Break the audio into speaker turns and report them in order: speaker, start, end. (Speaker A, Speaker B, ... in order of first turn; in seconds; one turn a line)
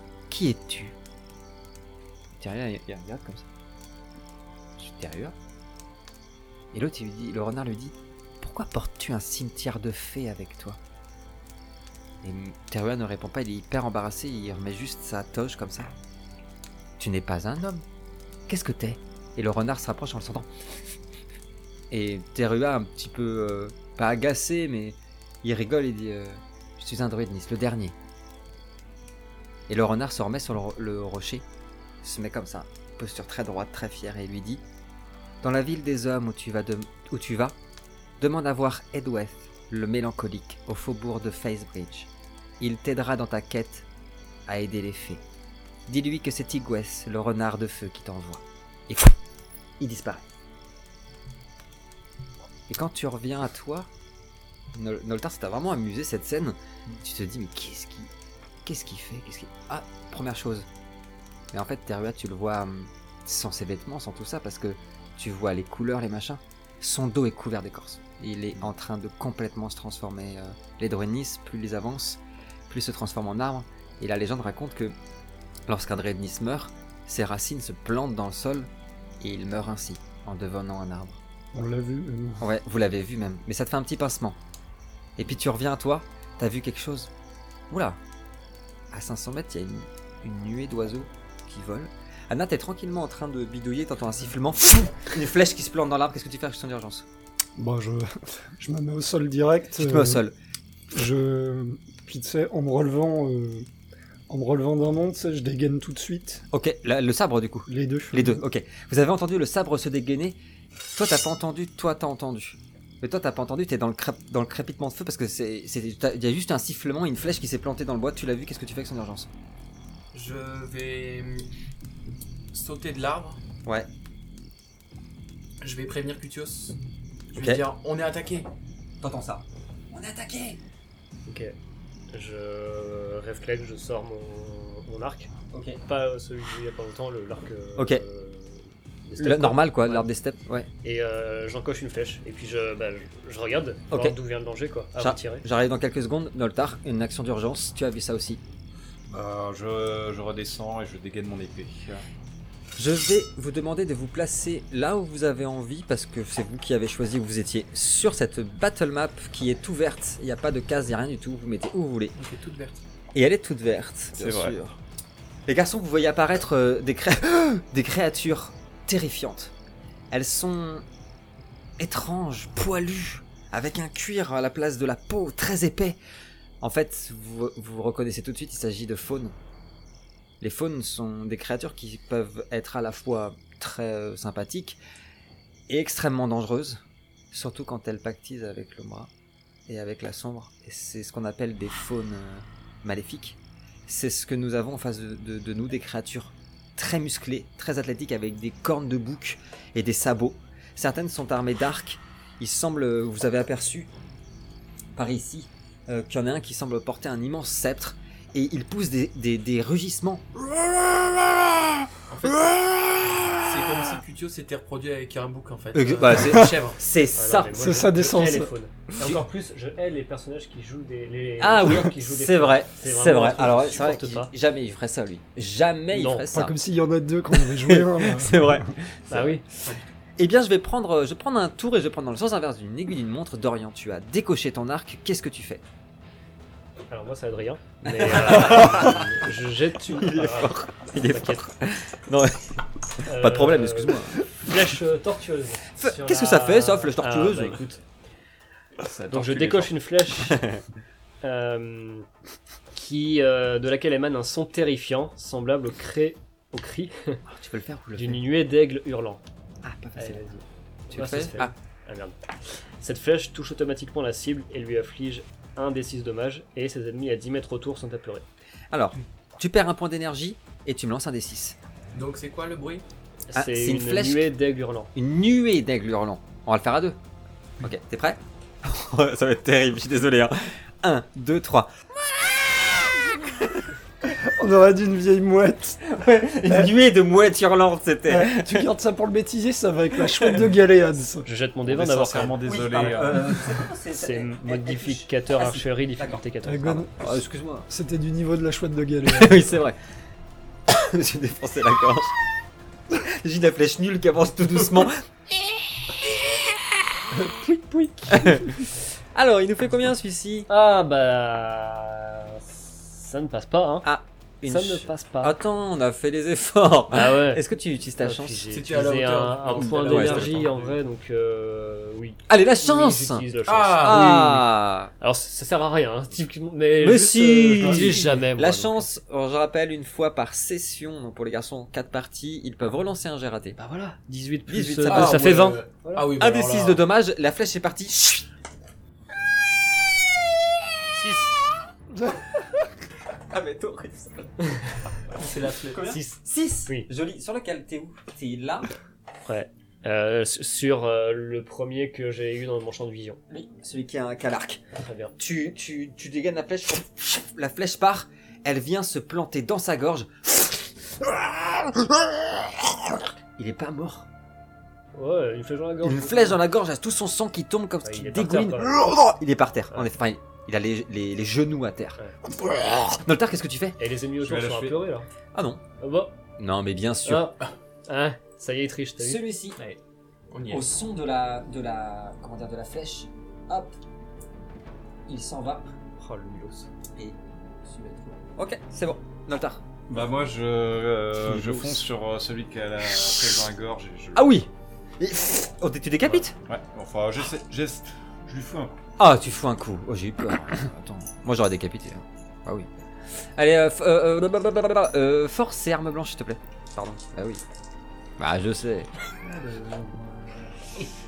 Speaker A: 0.3-1.0
Speaker A: 2.4-3.5
Speaker A: 4.8-5.3
Speaker A: 6.7-10.8
Speaker A: 12.2-15.9
Speaker A: 17.0-17.8
Speaker A: 18.5-20.5
Speaker A: 21.9-27.9
Speaker A: 29.7-31.4
Speaker A: 32.0-34.6
Speaker A: 35.4-37.6
Speaker A: 38.2-42.1
Speaker A: 42.6-43.9
Speaker A: 44.5-45.2
Speaker A: 45.9-49.2
Speaker A: 49.8-50.2
Speaker A: 52.7-53.9
Speaker A: 54.7-58.1
Speaker A: 58.6-60.7
Speaker A: 61.5-75.0
Speaker A: 75.7-78.7
Speaker A: 79.2-81.2
Speaker B: 81.5-82.5
Speaker A: 82.4-84.4
Speaker A: 85.2-87.1
Speaker A: 87.7-88.0
Speaker A: 88.9-97.0
Speaker B: 97.6-100.2
Speaker A: 99.8-100.3
Speaker B: 100.9-103.7
Speaker B: 104.3-106.4
Speaker A: 106.5-110.4
Speaker B: 107.7-108.4
Speaker A: 110.9-119.3
Speaker C: 120.1-121.5
Speaker C: 122.5-123.4
Speaker C: 125.6-126.8
Speaker C: 127.3-128.5
Speaker A: 129.0-130.6
Speaker D: 131.3-131.6
Speaker D: 132.1-135.3
Speaker A: 135.5-135.8
Speaker D: 135.9-140.1
Speaker A: 137.8-138.0
Speaker A: 139.2-140.7
Speaker D: 140.8-145.4
Speaker A: 143.9-144.2
Speaker A: 145.0-148.4
Speaker E: 149.1-152.0
Speaker A: 152.8-162.2
Speaker C: 162.2-162.8
Speaker A: 163.2-164.8
Speaker E: 164.2-164.6
Speaker A: 165.5-169.5
Speaker A: 170.1-170.8
Speaker A: 171.8-176.0
Speaker A: 176.6-179.3
Speaker A: 180.4-184.8
Speaker A: 185.7-186.8
Speaker A: 187.3-189.1
Speaker A: 189.7-203.9
Speaker A: 204.9-210.3
Speaker C: 212.1-216.8
Speaker A: 215.7-217.7
Speaker B: 216.1-216.5
Speaker D: 217.2-224.3
Speaker B: 217.6-218.5
Speaker A: 221.4-226.6
Speaker D: 225.9-226.3
Speaker B: 226.3-228.7
Speaker A: 227.3-229.4
Speaker D: 229.1-229.4
Speaker A: 230.2-235.6
Speaker D: 236.9-241.5
Speaker A: 237.9-239.1
Speaker A: 239.8-244.2
Speaker D: 243.1-247.8
Speaker A: 245.8-247.6
Speaker E: 248.8-249.8
Speaker D: 249.1-250.5
Speaker A: 250.3-250.6
Speaker D: 251.2-252.1
Speaker D: 252.7-257.2
Speaker A: 257.3-258.2
Speaker D: 257.9-259.2
Speaker A: 259.6-260.2
Speaker D: 260.0-262.2
Speaker A: 260.9-261.5
Speaker D: 262.8-268.2
Speaker A: 268.7-271.6
Speaker C: 271.9-272.9
Speaker D: 273.3-274.9
Speaker A: 273.4-274.3
Speaker A: 274.9-277.0
Speaker A: 277.6-283.5
Speaker B: 284.2-285.8
Speaker A: 285.8-288.7
Speaker B: 288.1-291.3
Speaker D: 291.3-292.8
Speaker E: 291.7-293.4
Speaker A: 292.4-296.2
Speaker D: 293.9-296.9
Speaker B: 296.4-297.0
Speaker A: 297.0-297.7
Speaker B: 297.7-299.6
Speaker A: 299.1-299.8
Speaker A: 300.7-302.1
Speaker A: 302.9-306.5
Speaker A: 307.1-310.5
Speaker D: 310.5-313.9
Speaker A: 313.8-318.5
Speaker D: 314.4-315.4
Speaker D: 316.9-317.4
Speaker D: 318.0-324.5
Speaker C: 318.5-320.7
Speaker A: 319.6-320.4
Speaker A: 322.3-323.2
Speaker C: 323.5-324.2
Speaker A: 323.8-324.9
Speaker D: 325.0-328.9
Speaker A: 326.8-334.0
Speaker C: 327.6-327.9
Speaker D: 333.9-336.1
Speaker A: 334.5-335.6
Speaker C: 334.9-336.8
Speaker A: 336.2-338.2
Speaker A: 340.9-341.3
Speaker A: 343.3-344.7
Speaker C: 345.1-346.0
Speaker A: 345.7-348.7
Speaker D: 349.3-353.2
Speaker A: 353.3-354.6
Speaker D: 354.8-355.1
Speaker A: 355.2-364.1
Speaker D: 364.9-366.4
Speaker A: 365.8-373.8
Speaker D: 367.8-368.8
Speaker D: 373.8-375.1
Speaker E: 374.2-374.8
Speaker A: 375.3-375.6
Speaker D: 375.8-376.1
Speaker A: 376.4-377.3
Speaker D: 377.1-377.4
Speaker D: 377.9-379.2
Speaker A: 379.0-379.6
Speaker C: 380.3-380.7
Speaker A: 380.5-383.7
Speaker A: 385.1-385.8
Speaker D: 386.0-386.7
Speaker A: 387.0-389.6
Speaker E: 389.9-394.4
Speaker A: 391.3-391.8
Speaker A: 394.1-394.5
Speaker A: 395.0-396.3
Speaker E: 396.5-398.8
Speaker A: 399.0-402.7
Speaker A: 403.4-407.4
Speaker A: 408.2-408.9
Speaker E: 409.2-410.6